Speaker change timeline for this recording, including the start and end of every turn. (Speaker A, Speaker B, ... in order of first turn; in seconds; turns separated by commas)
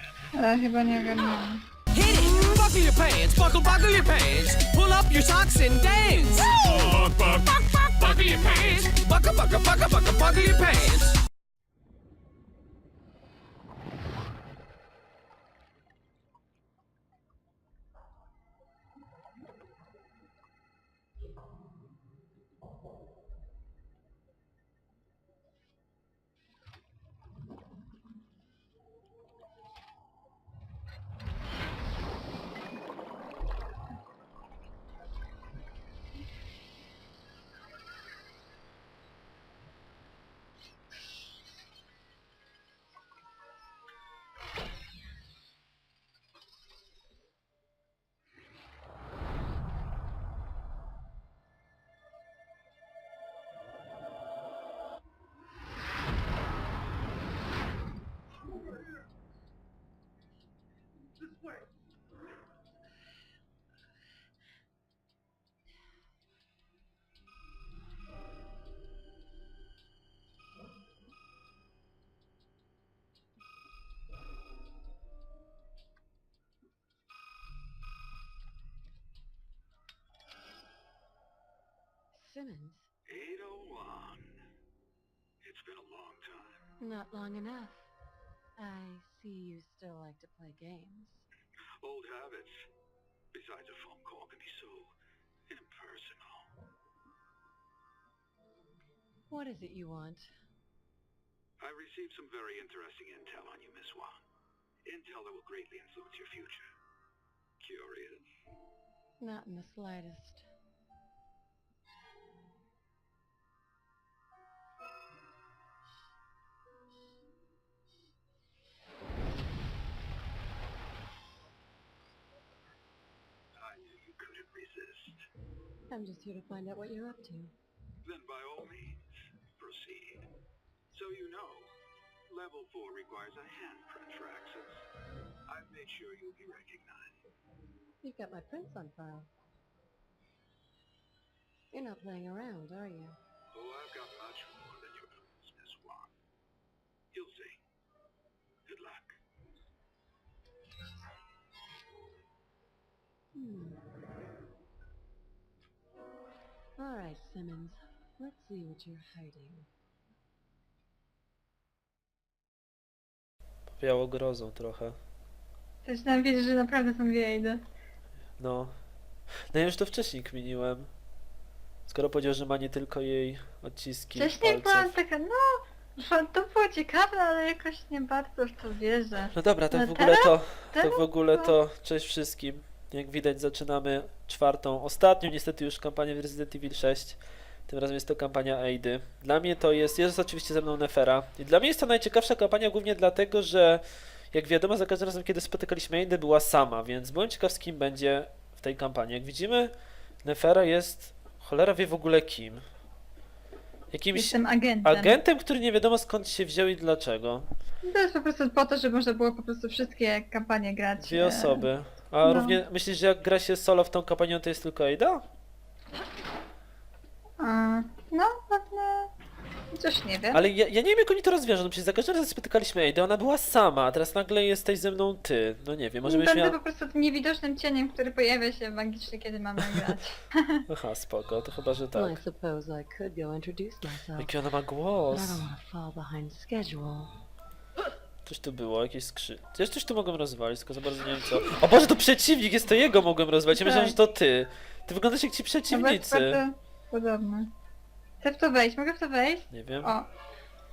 Speaker A: 0.3-1.6, Speaker B: 1.9-11.2, Speaker C: 82.1-82.9, Speaker D: 83.1-84.4, Speaker D: 85.4-86.6, Speaker C: 86.8-87.9, Speaker C: 88.6-91.2, Speaker D: 91.8-92.7, Speaker D: 93.3-94.9, Speaker D: 95.5-96.5, Speaker C: 99.3-100.3, Speaker D: 101.6-104.2, Speaker D: 104.8-106.7, Speaker D: 107.6-108.2, Speaker C: 109.2-110.5, Speaker D: 123.6-125.2, Speaker C: 125.9-127.5, Speaker D: 128.0-130.3, Speaker D: 130.9-131.7, Speaker D: 132.3-134.8, Speaker D: 135.5-137.2, Speaker C: 138.0-139.3, Speaker C: 141.7-143.2, Speaker D: 143.5-146.1, Speaker D: 147.1-147.6, Speaker D: 148.7-149.2, Speaker C: 153.3-153.8, Speaker C: 156.8-159.7, Speaker E: 163.8-165.0, Speaker A: 165.8-167.6, Speaker E: 168.4-168.7, Speaker E: 169.5-170.9, Speaker E: 171.9-174.9, Speaker A: 174.2-181.6, Speaker E: 179.3-199.7, Speaker E: 200.2-202.6, Speaker E: 203.9-207.5, Speaker A: 204.1-205.2, Speaker A: 207.8-211.7, Speaker E: 211.0-215.2, Speaker A: 212.2-212.6, Speaker A: 217.4-219.1, Speaker A: 219.7-220.4, Speaker E: 220.3-226.6, Speaker A: 226.0-230.6, Speaker E: 230.7-232.2, Speaker C: 231.9-234.3, Speaker E: 234.2-235.4, Speaker C: 235.1-237.1, Speaker E: 238.2-246.4, Speaker A: 243.5-243.9, Speaker A: 245.7-247.5, Speaker A: 248.2-250.1, Speaker E: 249.5-249.9